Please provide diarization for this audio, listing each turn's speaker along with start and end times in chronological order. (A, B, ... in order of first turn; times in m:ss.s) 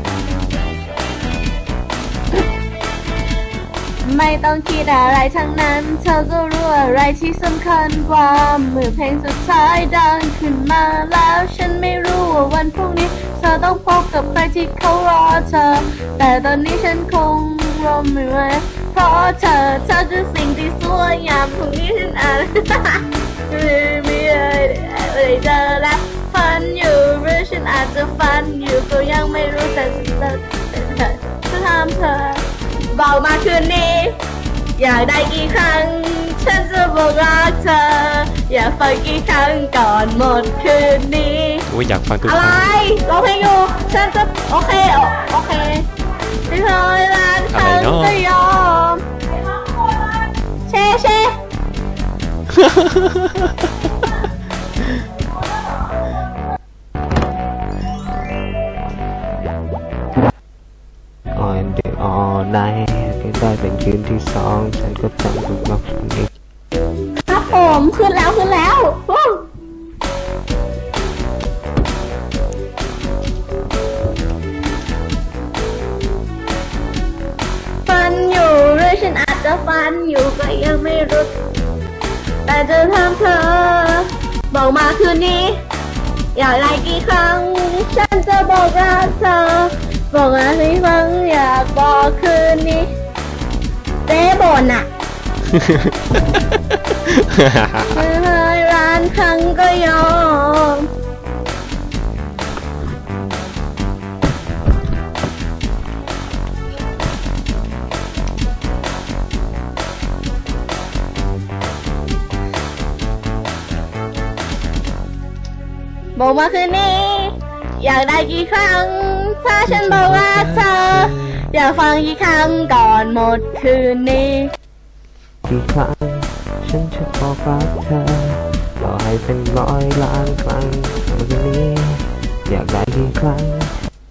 0:04.0-0:34.2 A
0:34.8-0:41.7 A
0:41.7-0:42.7 B
0:42.2-0:45.9 A
0:46.5-0:49.0 A
0:47.5-0:48.2 B
0:50.7-0:51.3 A
0:52.6-0:53.3 B
1:01.3-1:06.3 C
1:07.3-1:09.5 A
1:17.8-1:21.3 A
1:22.4-1:25.6 A
1:26.3-1:32.9 A
1:34.1-1:34.9 A
1:37.1-1:37.9 B
1:37.9-1:40.9 A
1:56.2-2:04.5 A
1:59.7-2:01.4 C
2:05.4-2:13.8 C